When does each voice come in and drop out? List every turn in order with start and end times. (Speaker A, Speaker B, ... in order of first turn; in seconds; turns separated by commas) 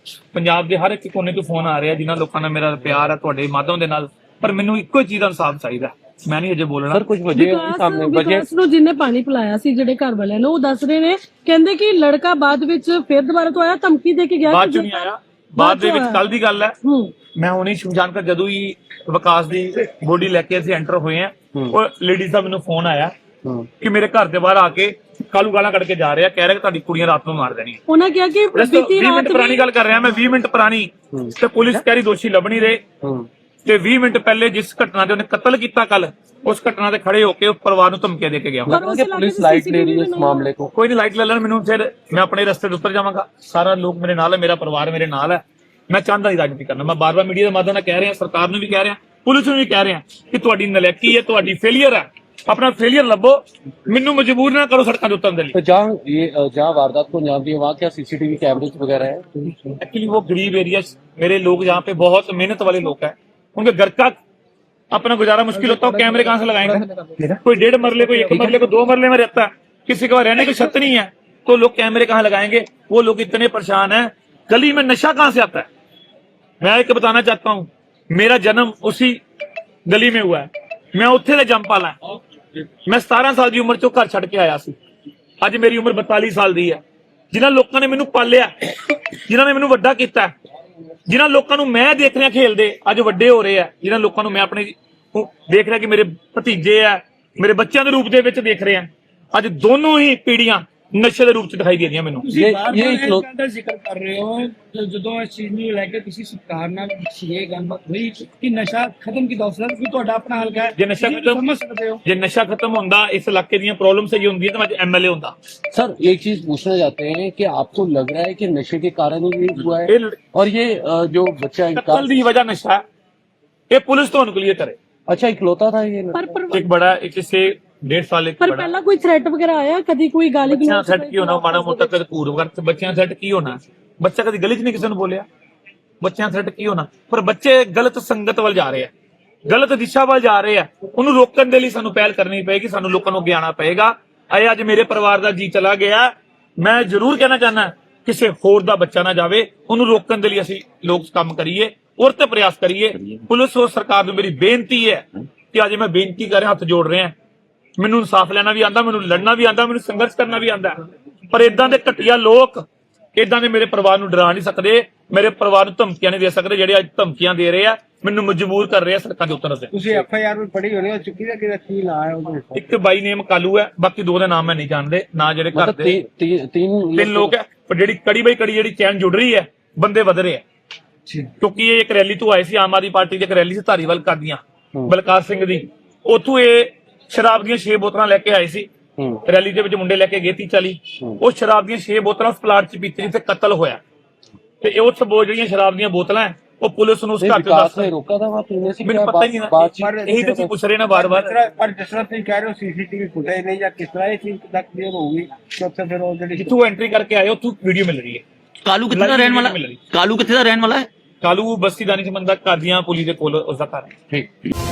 Speaker A: 0.3-7.0, Speaker B: 6.9-8.4, Speaker C: 7.3-16.2, Speaker A: 14.5-16.8, Speaker C: 16.8-17.1, Speaker A: 17.3-23.1, Speaker A: 23.8-27.8, Speaker C: 27.9-29.7, Speaker A: 28.5-32.8, Speaker B: 31.1-31.8, Speaker B: 33.0-33.3, Speaker A: 33.6-38.8, Speaker B: 38.7-40.7, Speaker C: 38.7-40.5, Speaker A: 40.7-55.5, Speaker B: 55.5-59.5, Speaker A: 59.8-64.2, Speaker A: 64.9-66.8, Speaker A: 67.3-75.7, Speaker B: 68.3-68.6, Speaker A: 76.6-79.2, Speaker A: 79.9-82.0, Speaker A: 82.8-84.8, Speaker A: 85.4-90.3, Speaker A: 91.1-102.3, Speaker D: 102.2-112.0, Speaker B: 102.3-103.2, Speaker A: 110.7-111.4, Speaker A: 112.0-115.3, Speaker B: 115.7-122.1, Speaker A: 119.8-120.2, Speaker A: 121.7-122.8, Speaker A: 123.7-124.8, Speaker B: 125.1-126.2, Speaker C: 126.1-126.7, Speaker A: 126.5-128.7, Speaker C: 128.4-131.9, Speaker A: 130.5-135.2, Speaker A: 136.0-138.9, Speaker A: 139.4-157.1, Speaker A: 157.8-162.6, Speaker A: 163.2-169.7, Speaker E: 169.7-172.6, Speaker A: 172.5-176.0, Speaker B: 175.5-177.3, Speaker A: 176.9-180.4, Speaker A: 181.4-188.7, Speaker B: 189.0-189.2, Speaker A: 189.2-193.8, Speaker A: 194.6-197.9, Speaker B: 197.2-200.5, Speaker A: 198.8-201.3, Speaker E: 199.7-206.6, Speaker A: 206.3-208.2, Speaker F: 208.6-210.9, Speaker A: 208.9-209.8, Speaker A: 211.2-213.9